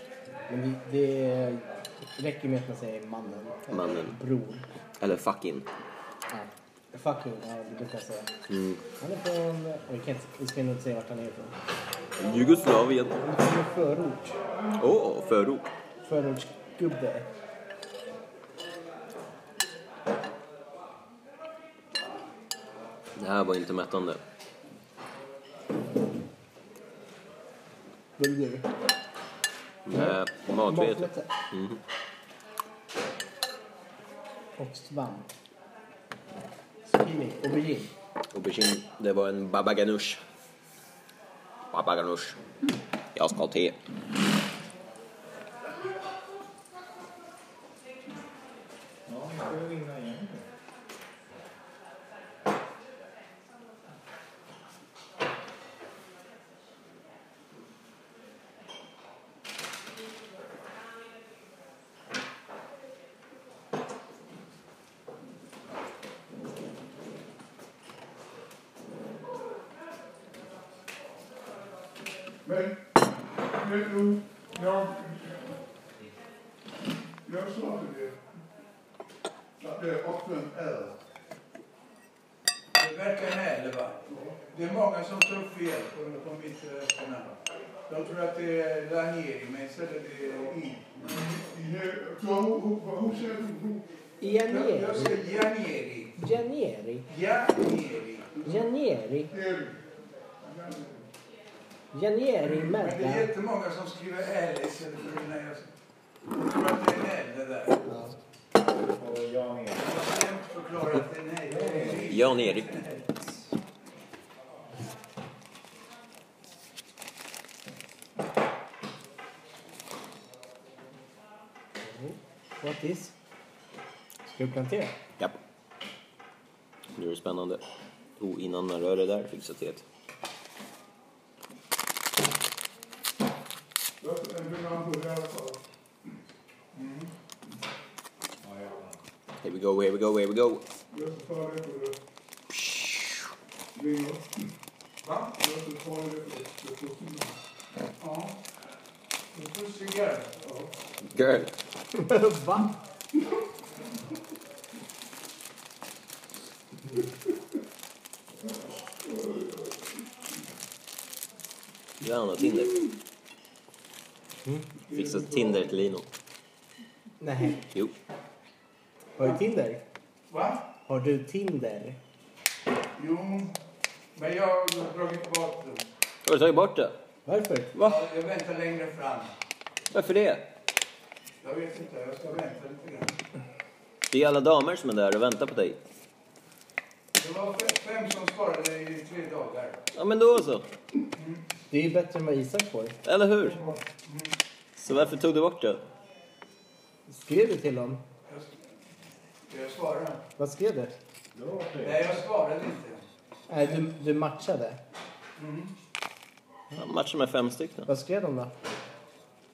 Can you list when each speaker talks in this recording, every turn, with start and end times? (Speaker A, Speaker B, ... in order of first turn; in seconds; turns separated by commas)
Speaker A: 0.5-4.7, Speaker B: 3.7-4.2, Speaker B: 5.0-5.7, Speaker A: 6.3-8.3, Speaker B: 8.5-8.8, Speaker A: 9.0-11.6, Speaker B: 12.2-13.2, Speaker A: 13.2-14.4, Speaker B: 14.8-15.7, Speaker A: 16.0-17.3, Speaker B: 23.2-24.2, Speaker A: 28.2-28.7, Speaker B: 29.9-31.8, Speaker A: 29.9-31.3, Speaker A: 34.6-35.3, Speaker A: 36.9-37.9, Speaker B: 38.3-40.2, Speaker B: 41.7-42.4, Speaker B: 43.1-43.8, Speaker C: 49.1-50.5, Speaker D: 72.4-75.5, Speaker D: 77.2-78.2, Speaker D: 79.6-81.0, Speaker E: 82.7-87.4, Speaker E: 87.9-91.0, Speaker D: 91.1-93.8, Speaker A: 94.2-95.2, Speaker E: 94.4-96.2, Speaker A: 96.2-97.1, Speaker E: 97.1-98.4, Speaker A: 98.4-99.3, Speaker D: 99.3-99.8, Speaker D: 100.4-101.1, Speaker A: 101.9-103.3, Speaker E: 102.5-105.7, Speaker E: 106.3-107.8, Speaker A: 107.8-108.1, Speaker C: 108.7-110.0, Speaker E: 109.8-113.0, Speaker C: 111.5-112.3, Speaker B: 112.0-112.9, Speaker A: 121.8-123.2, Speaker A: 124.2-125.0, Speaker B: 127.0-127.6, Speaker B: 128.2-129.8, Speaker D: 134.0-135.6, Speaker E: 136.7-137.1, Speaker C: 138.4-139.0, Speaker B: 139.4-140.7, Speaker D: 140.9-142.0, Speaker B: 142.5-143.2, Speaker D: 143.7-144.4, Speaker E: 145.0-145.4, Speaker D: 145.4-147.4, Speaker E: 148.0-148.4, Speaker E: 149.3-150.4, Speaker D: 150.4-150.7, Speaker B: 151.0-151.5, Speaker A: 151.9-152.8, Speaker D: 159.0-159.9, Speaker B: 162.0-162.8, Speaker D: 164.8-165.8, Speaker B: 164.9-166.1, Speaker A: 167.2-167.6, Speaker A: 169.2-169.8, Speaker E: 170.3-170.7, Speaker A: 170.8-172.0, Speaker E: 172.9-173.6, Speaker E: 174.2-175.9, Speaker B: 176.2-177.0, Speaker A: 177.3-177.8, Speaker E: 177.8-179.3, Speaker B: 177.8-178.0, Speaker B: 179.9-180.4, Speaker E: 181.4-183.2, Speaker B: 184.1-185.8, Speaker E: 187.2-189.8, Speaker B: 189.9-190.7, Speaker E: 191.2-191.4, Speaker A: 191.7-193.0, Speaker B: 193.0-193.6, Speaker E: 194.0-194.3, Speaker B: 194.8-195.8, Speaker A: 197.1-198.0, Speaker E: 199.5-200.2, Speaker A: 200.4-200.9, Speaker C: 201.3-202.2, Speaker E: 201.8-203.1, Speaker A: 203.5-204.8, Speaker E: 205.4-205.7, Speaker B: 206.7-207.9, Speaker A: 207.9-208.5